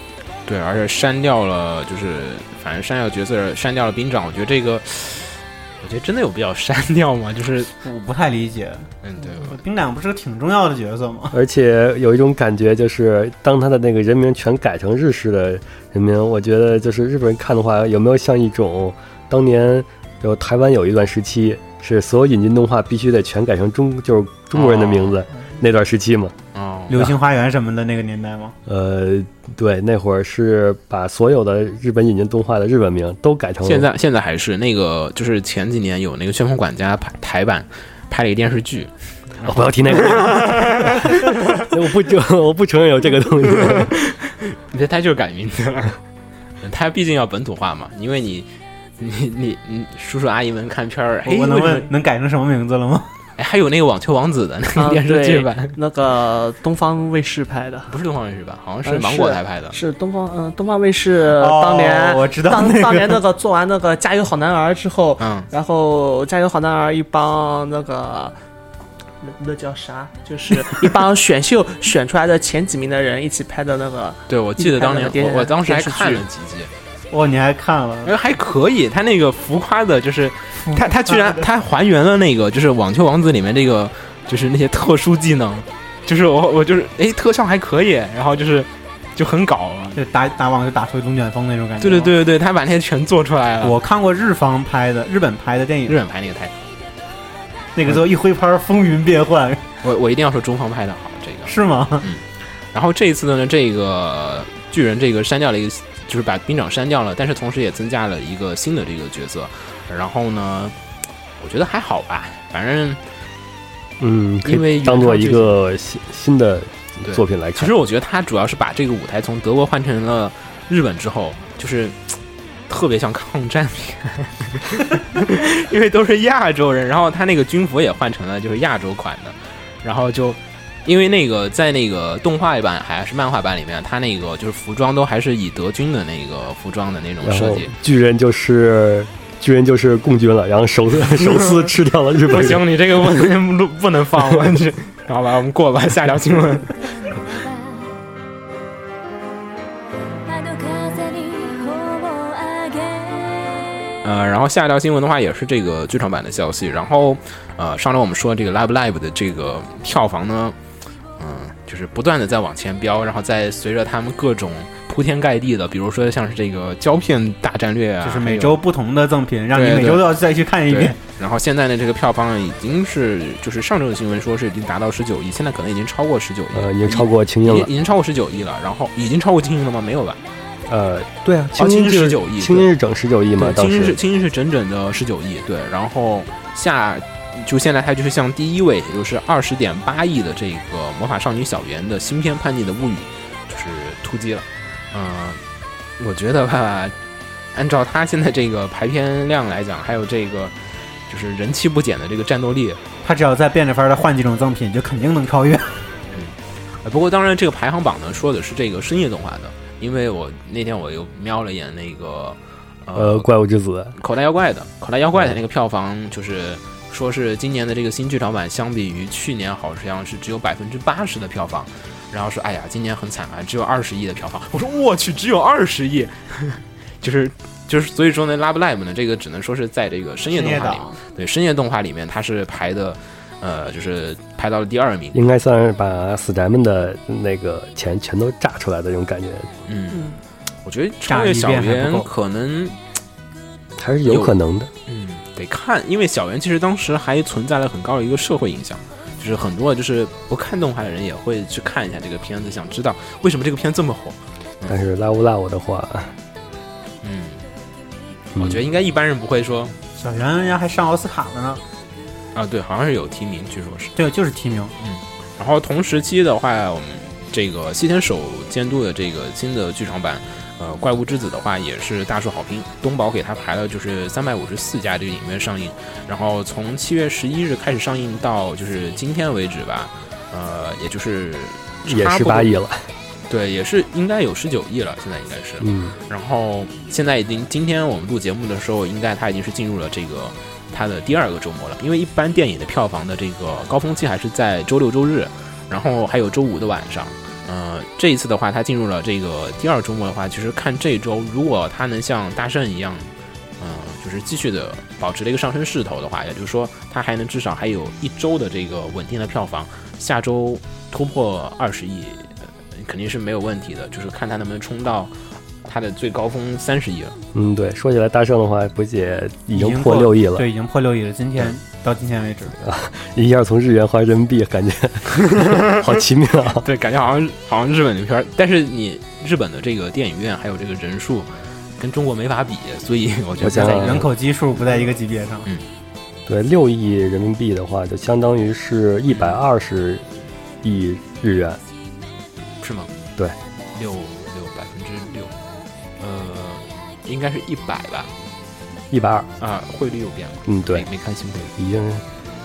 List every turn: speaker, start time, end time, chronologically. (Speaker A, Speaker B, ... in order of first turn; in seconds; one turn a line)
Speaker A: 0.5-7.7
Speaker B: 7.8-11.4
Speaker A: 9.0-9.6
Speaker C: 11.3-26.3
Speaker A: 24.5-25.2
Speaker A: 26.5-27.0
Speaker B: 26.9-28.6
Speaker C: 28.6-33.9
Speaker A: 33.6-41.7
Speaker C: 39.4-43.9
Speaker A: 43.6-46.0
Speaker A: 46.6-51.9
Speaker B: 51.2-53.1
Speaker A: 53.4-55.7
Speaker D: 54.7-57.9
Speaker A: 57.9-59.8
Speaker D: 58.8-68.3
Speaker B: 61.3-63.2
Speaker A: 65.2-65.5
Speaker D: 69.2-76.2
Speaker A: 74.3-76.7
Speaker B: 77.1-78.1
Speaker A: 78.0-90.0
Speaker B: 80.6-81.4
Speaker B: 90.0-92.1
Speaker A: 91.8-93.8
Speaker B: 93.6-96.0
Speaker A: 95.9-96.6
Speaker B: 97.7-99.6
Speaker A: 99.8-110.8
Speaker B: 101.5-102.1
Speaker A: 111.4-113.0
Speaker C: 114.0-117.7
Speaker A: 114.4-115.6
Speaker A: 117.0-137.7
Speaker C: 137.2-142.7
Speaker A: 141.1-141.7
Speaker A: 142.2-147.2
Speaker E: 150.3-153.5
Speaker A: 154.0-160.6
Speaker A: 161.2-168.6
Speaker B: 168.0-171.0
Speaker A: 169.5-170.1
Speaker A: 170.7-180.2
Speaker C: 176.5-177.7
Speaker C: 180.7-184.0
Speaker A: 181.5-182.7
Speaker A: 183.4-195.4
Speaker A: 196.0-196.9
Speaker A: 197.5-202.8
Speaker B: 203.0-205.9
Speaker A: 206.1-213.3
Speaker C: 212.9-213.9
Speaker A: 213.9-235.2
Speaker B: 230.3-231.0
Speaker C: 235.1-239.5
Speaker A: 239.7-240.1
Speaker A: 240.6-242.8
Speaker B: 241.1-242.1
Speaker C: 243.8-244.7
Speaker A: 244.1-244.3
Speaker A: 244.8-254.8
Speaker C: 254.7-256.1
Speaker A: 257.0-257.4
Speaker C: 258.3-258.6
Speaker A: 258.4-259.7
Speaker B: 259.9-261.6
Speaker A: 262.3-263.9
Speaker B: 263.9-264.7
Speaker A: 264.8-282.5
Speaker C: 281.9-282.9
Speaker A: 283.3-317.1
Speaker C: 285.6-285.9
Speaker C: 317.3-320.5
Speaker B: 319.5-322.6
Speaker C: 322.6-326.6
Speaker A: 325.4-325.8
Speaker A: 326.6-334.1
Speaker C: 333.4-334.1
Speaker B: 333.5-335.5
Speaker C: 336.3-340.1
Speaker A: 339.1-339.4
Speaker C: 340.6-341.6
Speaker A: 342.6-342.9
Speaker A: 343.7-345.3
Speaker A: 346.0-348.1
Speaker C: 348.9-349.3
Speaker A: 349.4-351.5
Speaker C: 350.4-350.9
Speaker C: 351.6-352.0